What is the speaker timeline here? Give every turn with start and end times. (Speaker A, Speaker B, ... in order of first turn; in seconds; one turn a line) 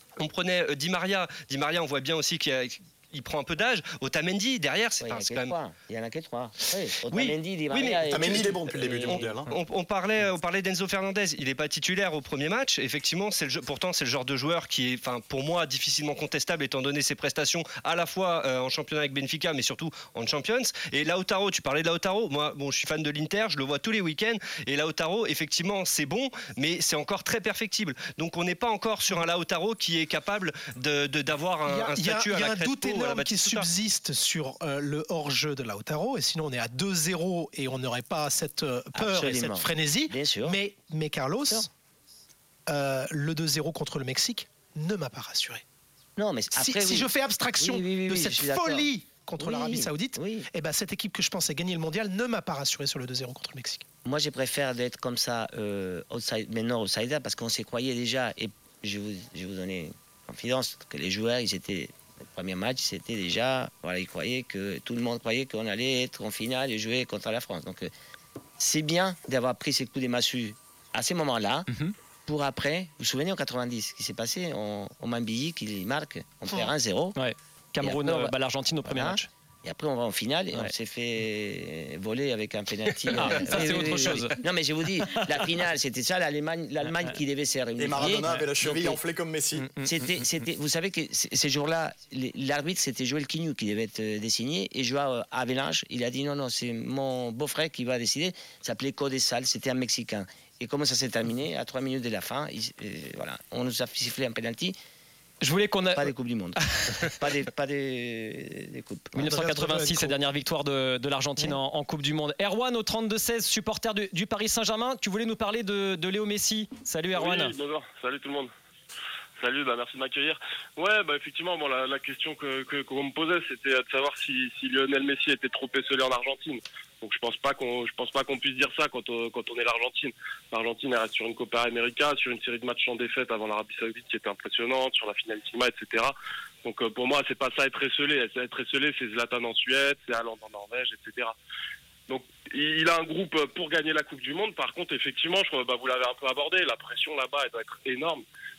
Speaker A: 0.2-5.5
Speaker B: 5.0-9.3
Speaker A: 7.1-33.7
Speaker C: 8.1-9.5
Speaker D: 31.6-41.7
Speaker B: 38.9-40.6
Speaker D: 42.7-45.6
Speaker B: 46.2-50.5
Speaker D: 46.5-53.8
Speaker B: 54.0-67.9
Speaker B: 68.6-71.7
Speaker B: 72.2-77.2
Speaker E: 77.2-79.2
Speaker B: 77.8-89.0
Speaker E: 83.1-84.4
Speaker C: 87.8-89.7
Speaker E: 88.2-88.5
Speaker E: 89.5-90.5
Speaker B: 89.8-104.8
Speaker E: 105.4-106.1
Speaker B: 105.9-109.2
Speaker E: 109.1-117.5
Speaker D: 109.2-110.2
Speaker F: 117.4-118.5
Speaker F: 119.4-141.3
Speaker F: 142.1-148.2